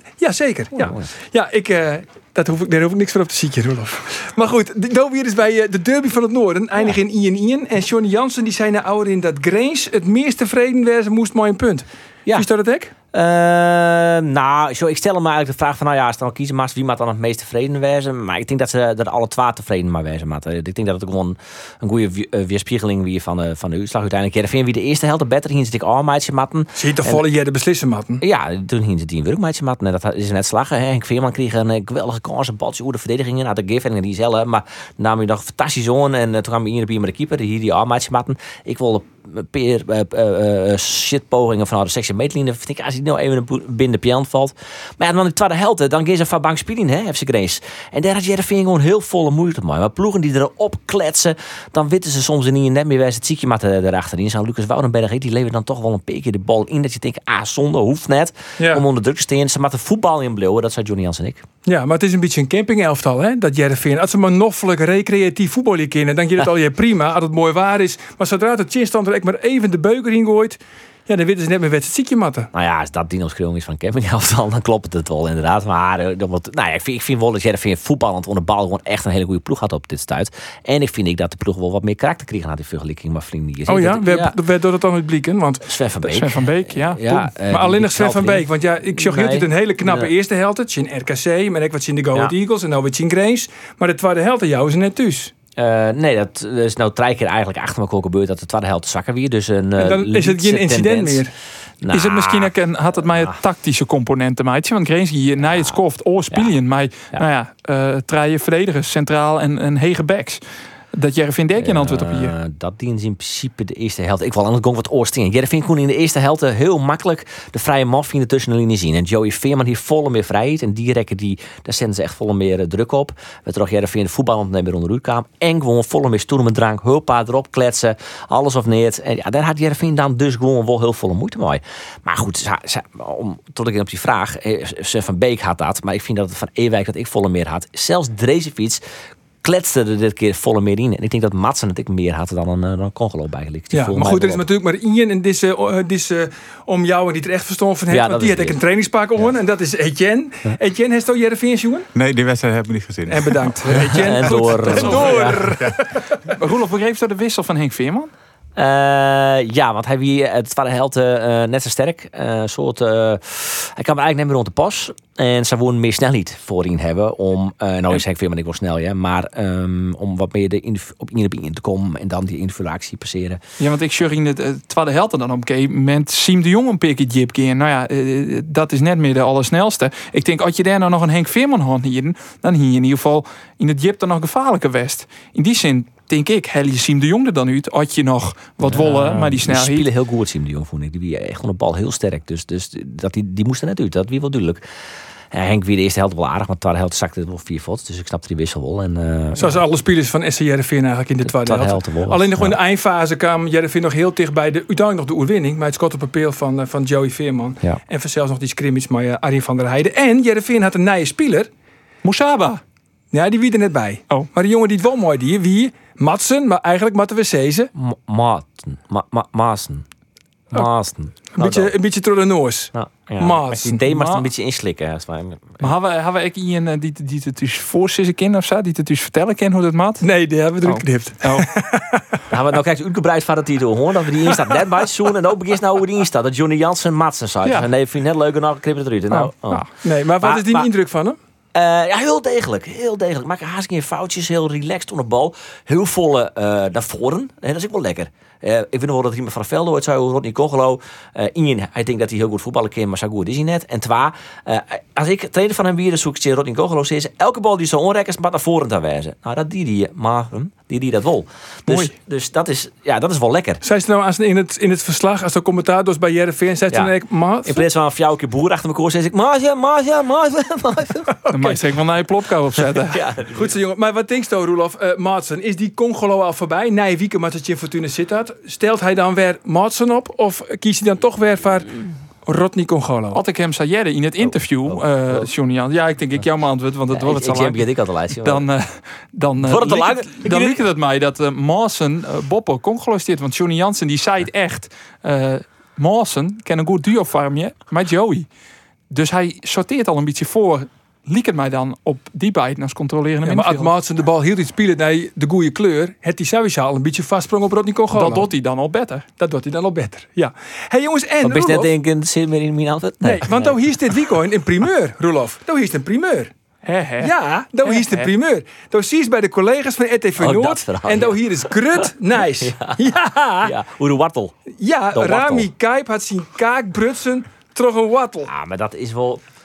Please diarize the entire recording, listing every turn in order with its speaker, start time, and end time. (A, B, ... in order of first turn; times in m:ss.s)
0:00.2-0:12.9 A
0:00.8-0:01.1 B
0:13.1-0:27.2 B
0:26.8-0:28.2 A
0:28.2-1:01.4 B
1:01.7-1:12.5 A
1:12.5-1:24.4 B
1:23.7-1:25.7 A
1:25.6-1:30.1 B
1:26.1-1:27.2 C
1:27.5-1:35.3 A
1:35.6-1:41.2 B
1:39.8-1:41.3 A
1:41.8-1:42.5 B
1:41.9-1:50.4 C
1:43.0-1:43.4 B
1:45.5-1:45.8 B
1:50.9-1:52.3 C
1:51.6-2:18.8 B
2:19.4-2:24.4 B
2:23.7-2:31.9 A
2:27.9-2:28.6 B
2:31.9-2:34.1 D
2:33.1-2:36.1 A
2:33.9-2:35.4 B
2:34.6-2:35.4 C
2:36.3-2:38.1 C
2:38.6-2:53.4 B
2:53.6-3:09.9 C
3:08.6-3:14.6 B
3:15.3-3:19.6 B
3:19.4-3:31.5 A
3:21.2-3:22.6 B
3:32.0-3:32.6 C
3:33.1-3:37.7 A
3:37.7-3:39.8 B
3:40.5-3:41.7 B
3:41.4-3:43.8 A
3:42.7-3:45.7 B
3:43.9-3:44.3 C
3:45.6-3:50.1 C
3:50.0-3:52.1 A
3:50.6-3:51.5 C
3:52.3-3:59.7 B
3:59.1-3:59.7 C
3:59.8-4:01.2 A
4:00.2-4:00.7 B
4:01.5-4:23.6 B
4:23.6-4:27.6 A
4:27.4-4:31.6 B
4:31.3-4:33.0 C
4:32.6-4:33.6 B
4:33.3-4:43.2 A
4:43.1-4:47.7 C
4:44.2-4:45.3 B
4:46.9-4:48.5 B
4:48.2-4:58.3 C
4:49.4-4:50.6 B
4:58.9-5:03.7 C
5:03.2-5:08.3 A
5:07.9-5:09.0 C
5:09.2-5:11.7 A
5:11.2-5:14.0 B
5:13.0-5:16.3 A
5:16.6-5:18.1 C
5:17.0-5:23.5 A
5:20.2-5:22.8 B
5:23.4-5:24.4 B
5:24.6-5:28.3 A
5:24.9-5:25.5 B
5:28.2-5:29.2 B